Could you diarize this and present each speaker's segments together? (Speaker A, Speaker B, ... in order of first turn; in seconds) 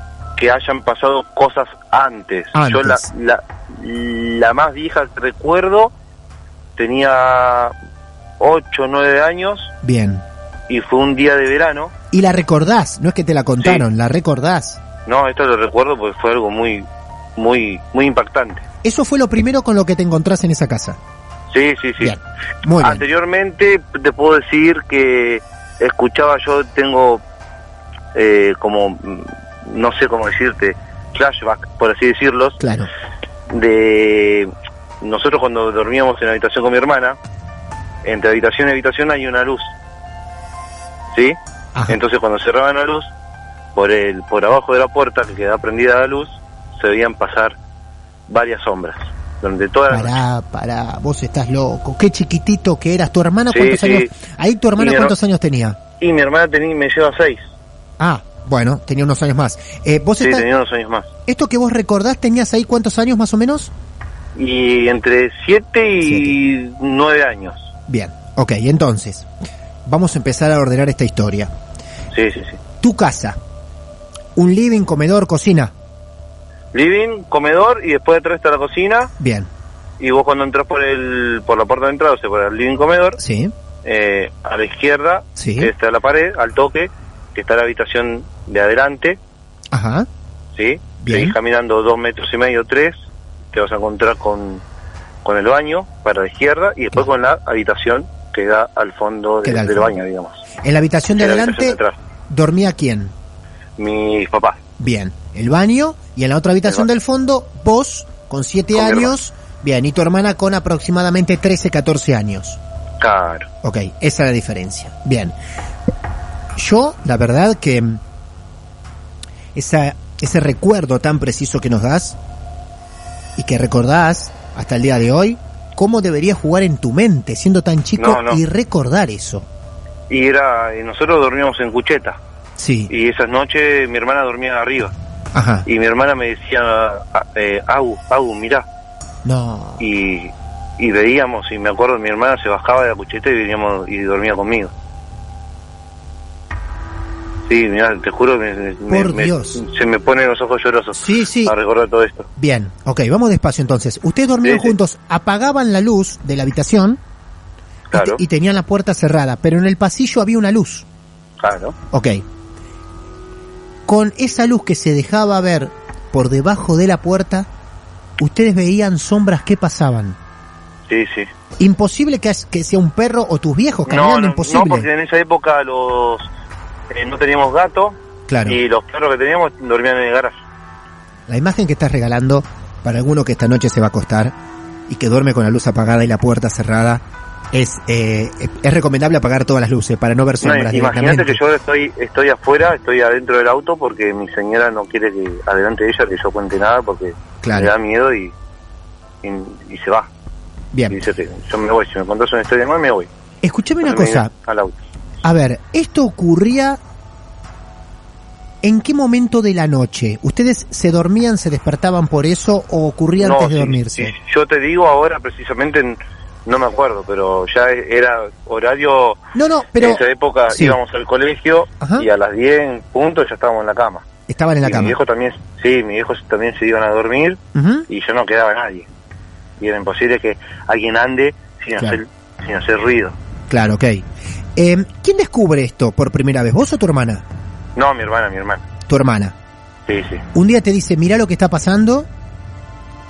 Speaker A: 0.3-5.9, 6.8-7.7, 8.4-9.7, 10.7-11.9, 15.1-16.9, 17.4-18.6, 21.5-22.1, 22.8-27.2, 28.1-32.6, 33.5-37.2, 38.0-39.7, 41.9-43.1, 43.7-47.5, 48.3-50.2, 53.5-54.1, 54.8-55.1, 56.0-57.4, 60.2-61.1, 64.3-67.7, 72.1-72.6, 76.7-79.1, 80.0-83.2, 83.8-89.2, 90.5-94.6, 95.2-100.4, 101.2-102.0, 103.8-104.6, 108.7-109.1, 113.0-113.5, 128.0-128.4, 130.1-132.2, 132.9-134.9, 135.7-138.7, 139.8-144.7, 147.4-152.3, 154.4-154.7, 157.9-158.2, 161.4-161.8, 170.9-171.3, 173.9-176.3, 176.9-180.3, 190.4-198.3, 199.2-200.1, 200.9-203.1, 203.8-204.8, 213.2-219.2, 219.8-224.0, 224.6-228.9, 229.6-233.2, 237.8-238.6, 239.9-240.2
Speaker B: 2.5-3.0, 9.8-10.2, 12.1-14.8, 18.8-21.0, 22.0-23.0, 32.6-32.9, 49.9-55.8, 58.0-60.5, 61.3-63.7, 66.0-66.3, 67.9-69.3, 69.8-71.5, 72.8-73.4, 74.3-75.7, 79.2-79.5, 83.2-83.5, 85.4-85.7, 89.7-90.1, 91.0-91.3, 99.4-99.9, 100.6-103.1, 104.8-112.6, 113.6-115.3, 116.5-118.0, 119.5-122.2, 123.3-129.5, 132.6-132.9, 135.3-135.7, 139.2-139.8, 148.9-149.6, 150.9-151.5, 152.4-157.0, 157.9-160.8, 161.9-162.2, 163.9-167.5, 168.2-170.2, 171.6-174.9, 178.3-178.6, 181.3-184.3, 184.9-191.4, 197.4-197.7, 200.7-201.0, 203.4-204.3, 205.2-206.8, 208.6-214.1, 219.3-220.8, 221.8-222.1, 224.3-225.0, 227.5-227.9, 233.5-237.2, 238.9-239.3, 240.3-242.1